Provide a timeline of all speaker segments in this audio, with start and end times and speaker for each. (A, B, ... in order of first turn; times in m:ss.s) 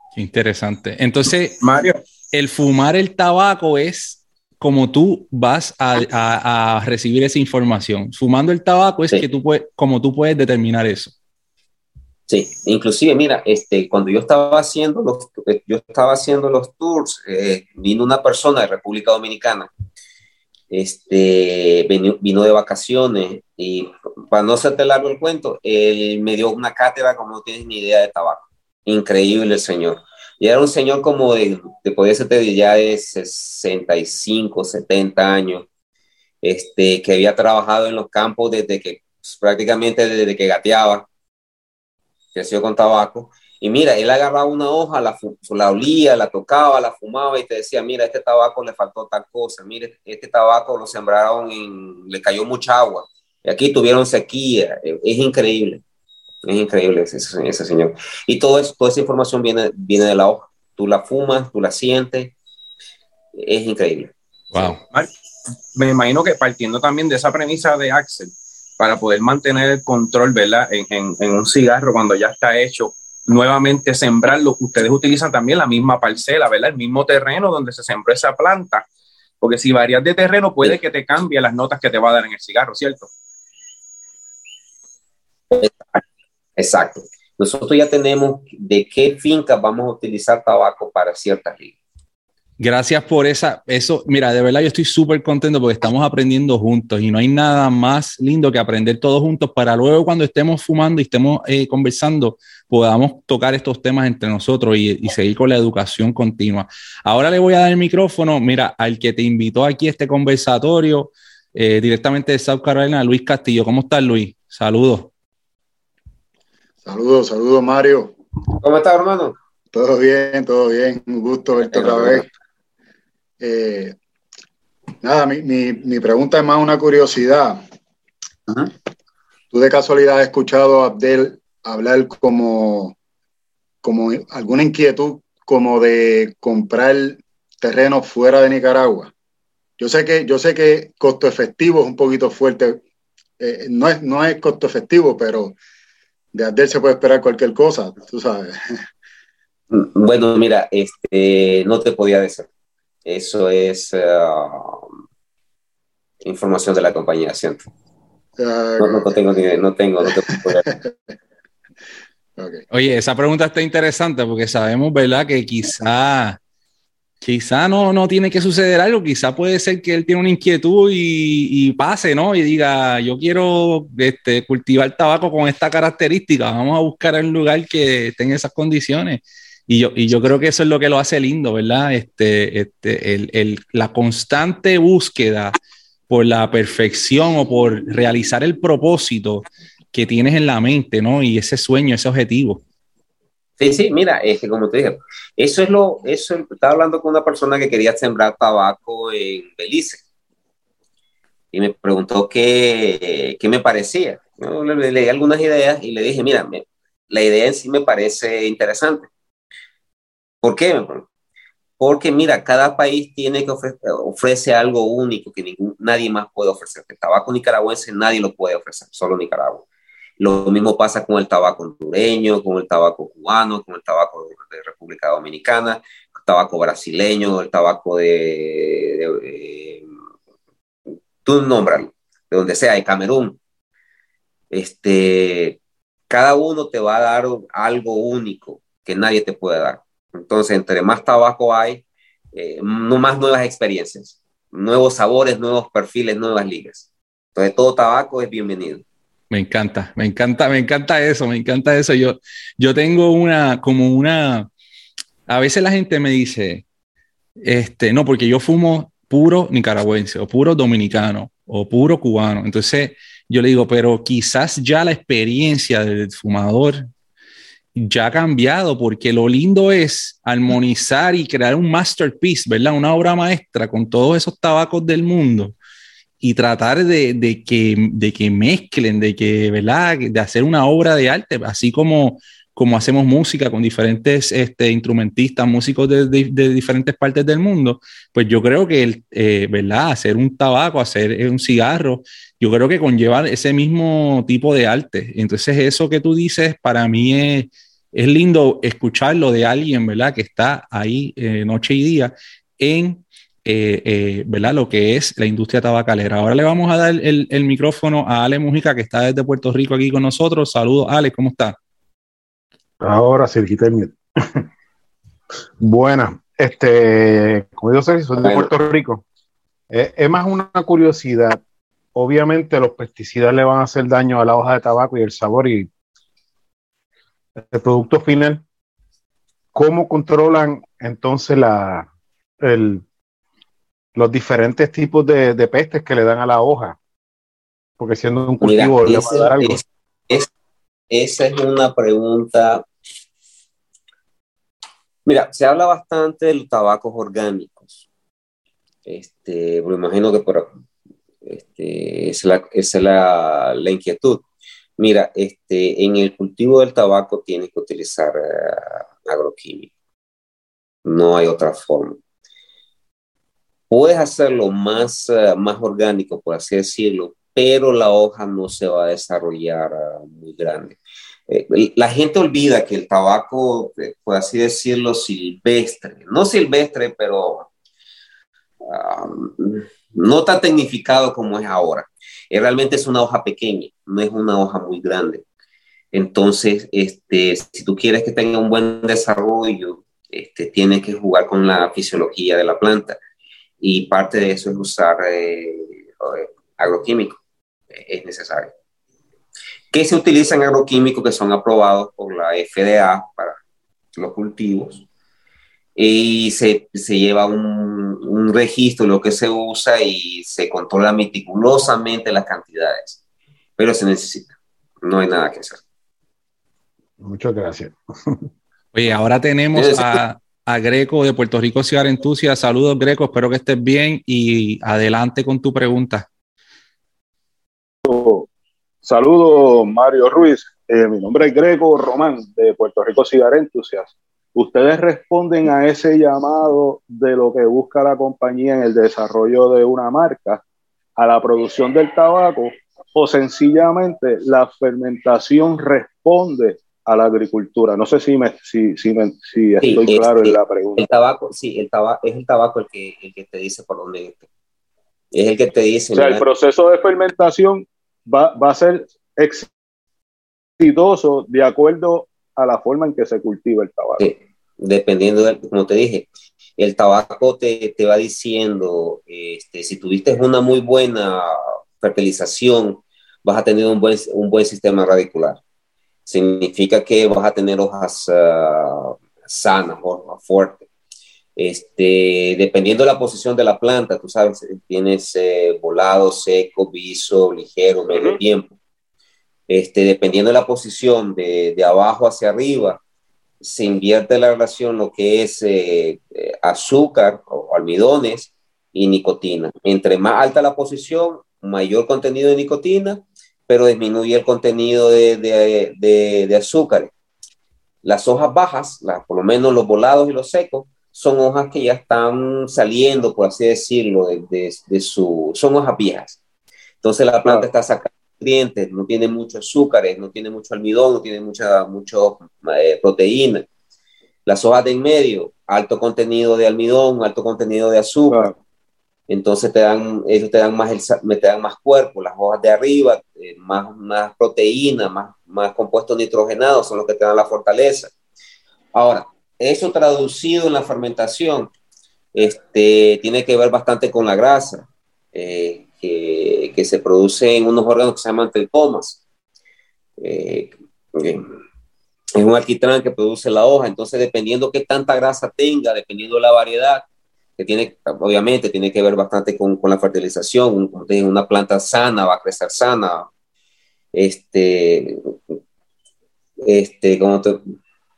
0:00.2-0:01.6 A
0:01.6-0:02.0 B
0:02.3-0:11.1 A
0:12.3-0:19.7 C
0:20.7-0:35.6 C
0:36.4-0:41.0 C
0:42.3-0:55.8 C
0:56.4-1:02.3 C
1:03.4-1:04.8 C
1:04.5-1:04.8 A
1:05.7-1:18.8 B
1:19.4-1:23.1 B
1:25.5-1:26.0 C
1:26.6-1:31.8 C
1:32.6-1:55.1 A
1:56.8-1:58.1 D
1:58.6-1:59.4 C
1:59.7-2:02.2 D
2:01.7-2:02.2 C
2:03.4-2:04.0 D
2:05.0-2:07.6 D
2:09.5-2:12.9 D
2:13.8-2:19.1 D
2:19.8-2:22.8 D
2:23.4-2:25.6 D
2:26.3-2:28.6 D
2:29.7-2:32.5 C
2:33.0-2:34.8 C
2:36.2-2:37.6 C
2:38.4-2:39.1 D
2:38.8-2:40.6 C
2:40.3-2:40.9 D
2:42.4-2:42.6 D
2:42.7-2:46.4 A
2:47.2-3:05.6 A
3:06.1-3:12.6 A
3:13.6-3:20.0 C
3:21.5-3:29.1 C
3:30.4-3:31.0 C
3:31.8-3:39.6 C
3:40.2-3:49.8 C
3:51.2-3:53.4 C
3:54.5-3:55.6 C
3:56.1-4:08.8 C
4:09.3-4:14.5 A
4:15.3-4:16.6 A
4:17.4-4:26.9 A
4:27.7-4:35.5 A
4:36.2-5:11.6 A
5:12.8-5:14.4 E
5:15.6-5:19.0 E
5:19.7-5:21.4 E
5:21.9-5:25.7 E
5:27.4-5:28.4 E
5:29.5-5:31.9 E
5:32.4-5:32.8 E
5:33.9-5:36.8 E
5:37.8-5:39.6 E
5:38.4-5:40.3 C
5:40.9-5:42.6 C
5:45.0-5:47.8 C
5:48.8-5:50.5 C
5:51.2-5:54.2 C
5:54.8-5:59.7 C
6:00.8-6:02.0 C
6:03.7-6:10.8 C
6:11.3-6:17.5 C
6:18.6-6:25.2 C
6:25.9-6:33.0 C
6:33.6-6:37.2 C
6:37.7-6:38.5 C
6:39.7-6:43.4 C
6:44.0-6:44.8 C
6:45.8-6:53.0 C
6:53.6-6:55.6 C
6:57.0-6:58.2 E
6:58.7-7:06.1 A
6:59.5-7:00.0 C
7:07.8-7:08.3 F
7:08.8-7:20.4 F
7:21.0-7:30.8 F
7:29.6-7:34.2 C
7:35.1-7:36.2 C
7:35.9-7:39.5 F
7:40.6-7:44.0 F
7:44.0-7:55.4 C
7:56.1-8:00.6 C
8:01.4-8:08.5 C
8:07.9-8:08.2 F
8:09.5-8:12.8 C
8:13.4-8:26.9 C
8:27.8-8:36.2 C
8:36.8-8:43.4 C
8:44.2-8:48.3 C
8:49.1-8:57.9 C
8:58.7-9:01.5 C
9:02.1-9:09.0 C
9:10.0-9:11.3 C
9:12.2-9:16.8 C
9:17.4-9:23.1 C
9:23.9-9:25.0 C
9:26.4-9:27.4 C